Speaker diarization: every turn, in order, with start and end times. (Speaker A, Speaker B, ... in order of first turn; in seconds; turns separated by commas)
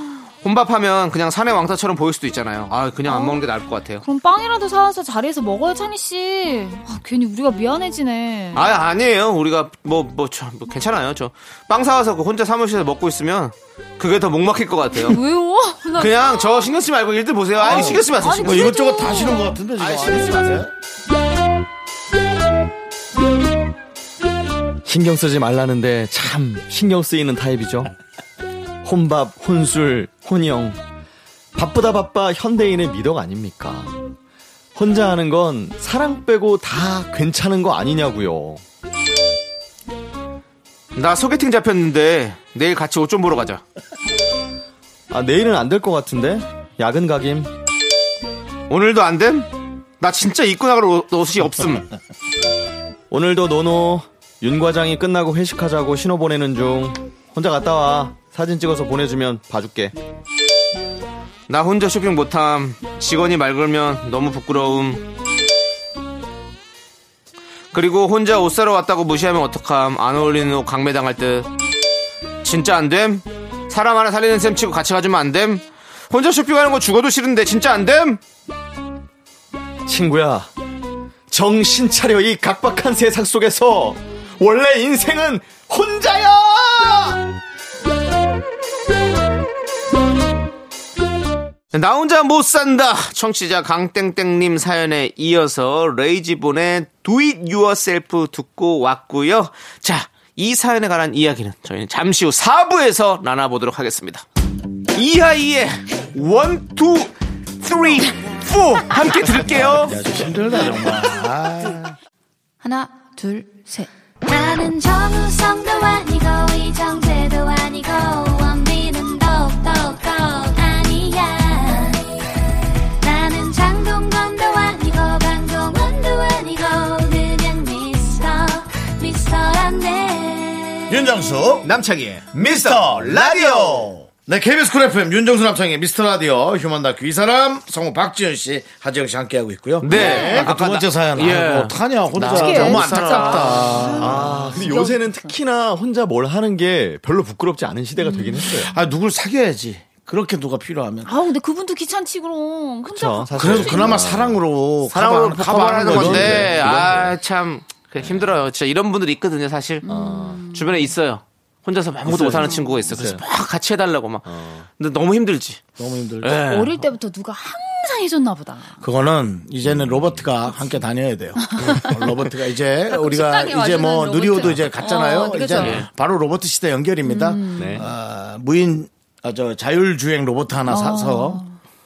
Speaker A: 0.4-4.0, Speaker B: 3.0-3.4, Speaker B: 4.0-8.7, Speaker A: 8.5-15.2, Speaker B: 14.9-16.7, Speaker A: 16.0-18.8, Speaker B: 17.6-19.6, Speaker C: 17.6-20.7, Speaker A: 19.8-20.7, Speaker D: 24.8-27.9, Speaker D: 28.8-30.8, Speaker D: 31.5-34.0, Speaker D: 34.7-38.6, Speaker A: 40.9-43.6, Speaker D: 45.1-47.5, Speaker A: 48.7-51.9, Speaker D: 53.1-59.9, Speaker A: 61.5-65.0, Speaker A: 67.7-71.5, Speaker A: 72.4-78.2, Speaker D: 79.8-80.5, Speaker D: 81.3-87.2, Speaker A: 91.7-104.2, Speaker A: 104.9-110.0, Speaker C: 109.4-112.0, Speaker B: 112.6-113.8, Speaker E: 114.2-122.0, Speaker E: 123.0-131.0, Speaker C: 130.9-131.7, Speaker A: 131.6-133.9, Speaker C: 132.3-144.4, Speaker A: 139.8-143.9, Speaker B: 139.9-140.4, Speaker D: 139.9-140.2, Speaker B: 142.2-145.3, Speaker D: 144.0-148.7, Speaker B: 148.0-148.7, Speaker C: 148.7-151.1, Speaker B: 151.0-154.0, Speaker D: 152.8-154.4, Speaker C: 153.3-156.9, Speaker A: 154.9-159.8, Speaker D: 155.7-157.2, Speaker D: 158.0-158.3, Speaker B: 159.8-160.9, Speaker D: 159.9-160.4, Speaker A: 160.5-165.6, Speaker D: 162.1-163.2, Speaker B: 162.3-162.8, Speaker D: 164.2-164.7, Speaker C: 165.8-166.4, Speaker A: 166.2-166.8, Speaker B: 166.4-168.8, Speaker C: 168.8-181.4, Speaker D: 169.7-170.2, Speaker B: 171.4-172.2, Speaker B: 172.8-175.8, Speaker A: 175.6-175.9, Speaker B: 177.0-177.8, Speaker D: 177.6-177.8, Speaker B: 180.7-181.6